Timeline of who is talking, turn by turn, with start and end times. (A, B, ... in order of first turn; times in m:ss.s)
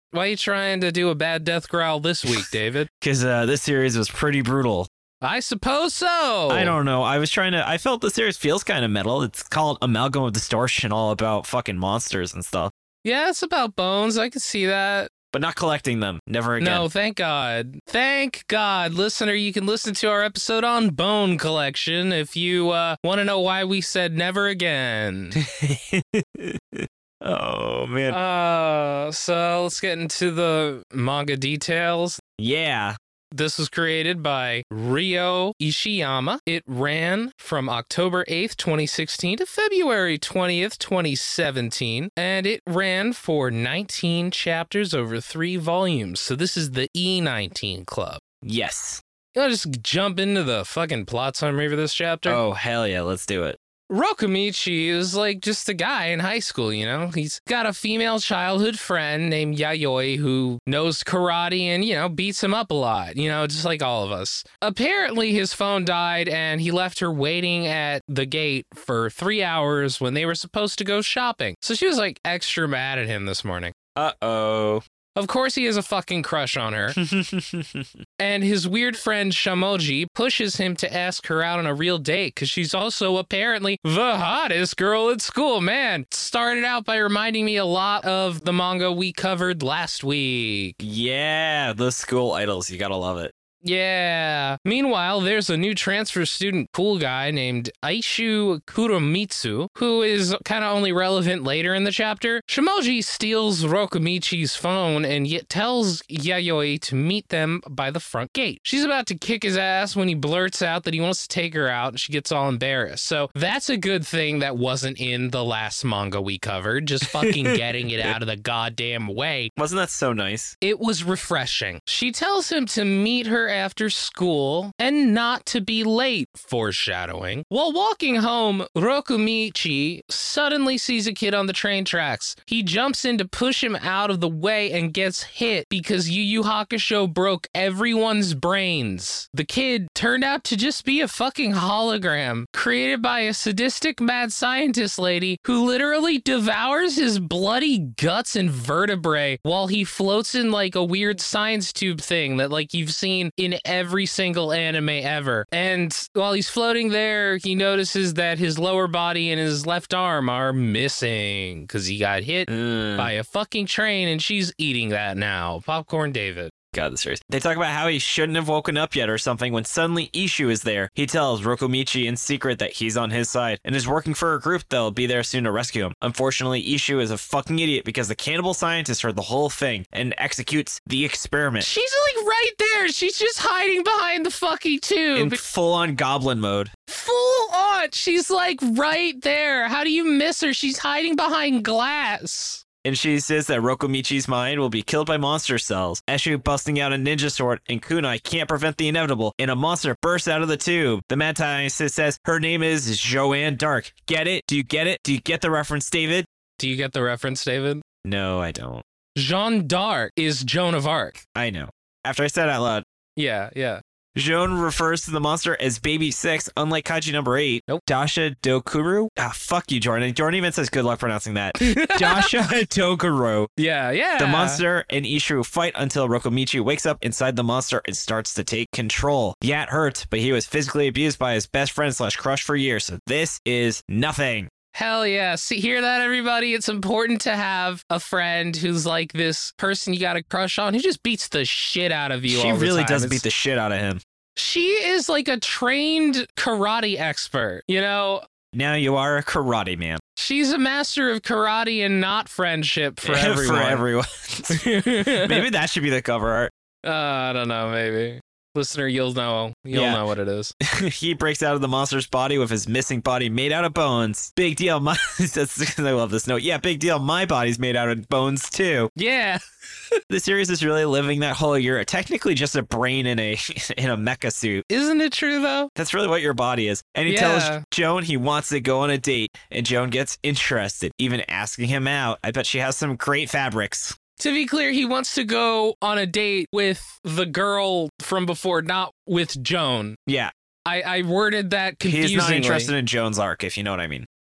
0:00.1-0:02.9 A
0:03.0-0:04.9 B
0:05.2-0:06.8 A
0:06.5-0:12.7 B
0:13.0-0:15.1 A
0:15.3-0:16.9 B
0:16.6-0:25.4 A
0:25.4-0:28.2 B
0:28.1-0:32.2 A
0:32.4-0:33.0 B
0:33.3-0:48.2 A
0:48.4-0:49.0 B
0:49.4-0:52.4 A
0:52.3-0:53.6 B
0:53.9-1:13.7 A
1:14.0-1:14.8 B
1:15.2-1:17.0 A
1:17.0-1:17.9 B
1:18.2-1:30.8 A
1:30.8-1:33.3 B
1:33.6-1:59.5 A
1:57.2-1:58.1 B
1:59.6-2:00.5 B
2:00.6-2:46.5 A
2:42.5-2:43.1 B
2:46.7-3:01.7 B
3:01.6-3:05.4 A
3:05.2-3:06.7 B
3:06.9-3:12.6 A
3:12.8-3:26.3 B
3:26.6-3:27.8 A
3:28.0-3:28.8 B
3:29.2-3:31.2 A
3:31.4-3:32.8 B
3:33.2-3:33.8 A
3:34.2-3:43.5 B
3:41.6-3:42.3 A
3:43.6-3:44.6 A
3:44.2-3:54.5 B
3:54.7-4:03.2 A
4:02.3-4:04.0 B
4:04.4-4:08.2 A
4:08.5-4:10.0 B
4:10.2-4:13.8 A
4:13.0-4:16.5 B
4:14.5-4:15.4 A
4:16.8-4:20.5 A
4:19.7-4:20.0 B
4:20.6-4:28.9 B
4:29.0-4:30.0 A
4:30.1-4:34.6 B
4:34.7-4:35.7 A
4:35.8-4:44.0 B
4:37.1-4:37.6 A
4:44.2-4:50.0 A
4:50.7-4:52.7 A
4:51.9-4:54.1 B